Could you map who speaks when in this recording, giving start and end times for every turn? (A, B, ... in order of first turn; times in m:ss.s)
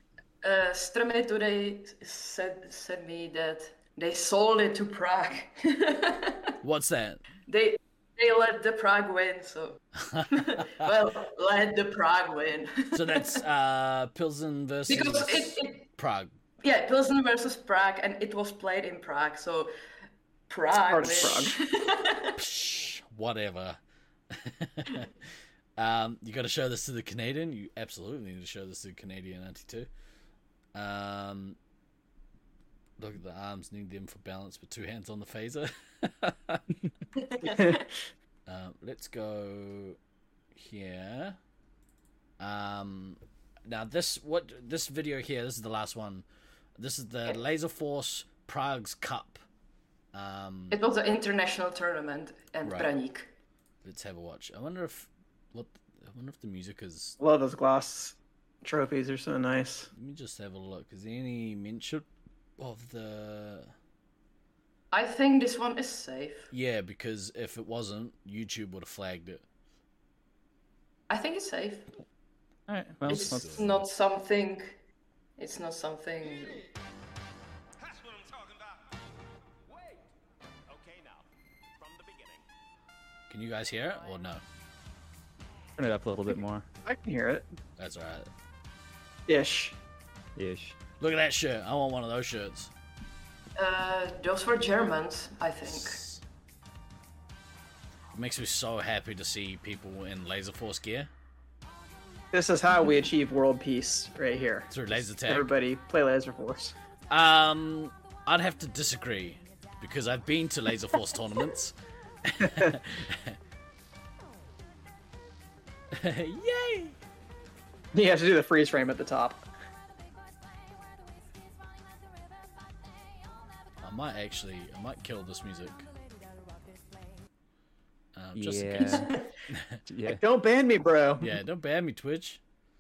0:00.4-0:06.6 A
0:06.6-0:07.2 B
0:07.5-0:13.4 A
0:10.1-0:10.9 B
0:12.9-0:16.3 B
0:14.9-0:15.9 A
0:16.6-0:19.7 A
0:20.5-0:22.4 A
0:20.9-0:21.6 C
0:22.4-0:23.8 B
0:24.3-0:25.1 B
0:25.8-0:29.9 B
0:30.8-0:31.6 B
0:33.0-0:36.6 B
0:37.2-0:37.8 A
0:37.4-0:37.9 C
0:38.5-0:40.0 B
0:40.5-0:41.4 B
0:42.4-0:46.2 B
0:46.8-0:49.4 B
0:50.1-0:50.8 B
0:50.7-0:53.3 A
0:52.6-0:52.9 B
0:53.8-0:57.2 B
0:57.2-0:59.9 C
0:59.9-1:02.1 B
1:02.6-1:03.7 B
1:04.9-1:06.5 A
1:06.5-1:09.4 B
1:11.1-1:11.9 A
1:12.7-1:13.6 D
1:13.1-1:13.9 B
1:13.1-1:14.8 A
1:15.4-1:16.6 A
1:17.8-1:18.9 E
1:19.7-1:20.1 E
1:20.7-1:22.5 E
1:23.3-1:24.4 B
1:23.8-1:24.3 E
1:25.8-1:26.7 D
1:26.9-1:27.5 C
1:27.8-1:28.3 B
1:29.3-1:29.8 C
1:30.4-1:30.8 D
1:31.0-1:32.7 B
1:33.6-1:36.0 A
1:35.7-1:36.2 B
1:38.1-1:41.1 B
1:42.3-1:46.8 C
1:44.7-1:45.5 B
1:47.1-1:53.4 B
1:55.9-1:57.0 B
1:57.9-1:59.4 C
2:03.8-2:05.9 B
2:08.2-2:09.8 B
2:08.4-2:09.2 D
2:08.9-2:09.3 A
2:09.9-2:10.2 D
2:10.1-2:11.4 C
2:11.2-2:12.4 B